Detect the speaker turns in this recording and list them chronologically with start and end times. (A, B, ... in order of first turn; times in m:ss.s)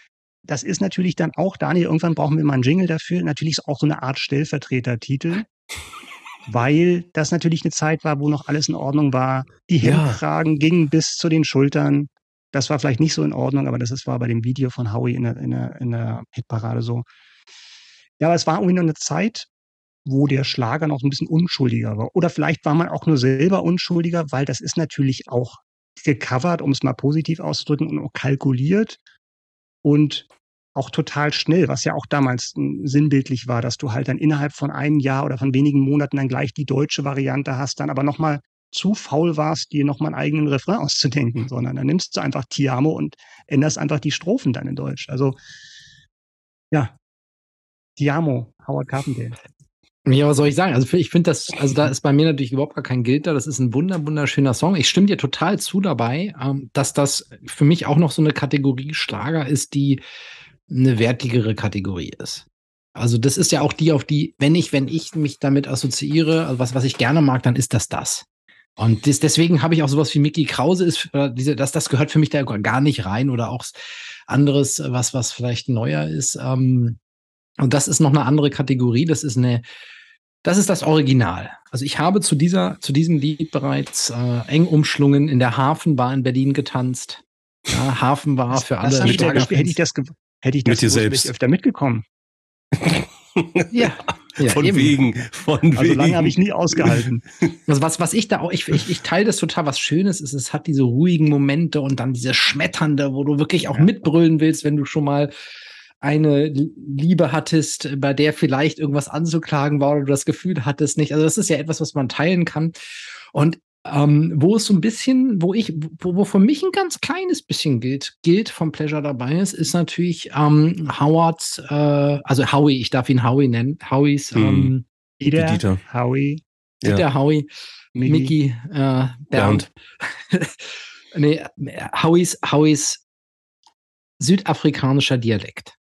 0:00.4-0:05.5 A
0:06.5-0:17.1 A
0:09.8-0:10.2 B
0:18.2-0:19.5 A
0:20.0-0:29.0 A
0:29.8-0:45.4 A
0:48.0-0:49.4 A
0:50.1-1:00.0 C
1:00.7-1:02.4 C
1:03.0-1:08.2 C
1:08.8-1:13.7 C
1:14.3-1:17.0 C
1:17.6-1:19.6 C
1:20.4-1:29.8 C
1:28.8-1:32.0 A
1:29.0-1:29.5 B
1:30.6-1:31.3 B
1:32.7-1:37.0 B
1:33.7-1:35.0 C
1:35.8-1:37.2 A
1:37.7-1:45.3 C
1:46.0-1:52.7 C
1:53.3-2:04.8 C
2:04.4-2:04.7 B
2:05.2-2:06.4 A
2:05.3-2:05.8 B
2:06.8-2:07.5 C
2:08.0-2:08.4 A
2:08.0-2:13.0 C
2:09.3-2:09.7 B
2:14.2-2:15.8 C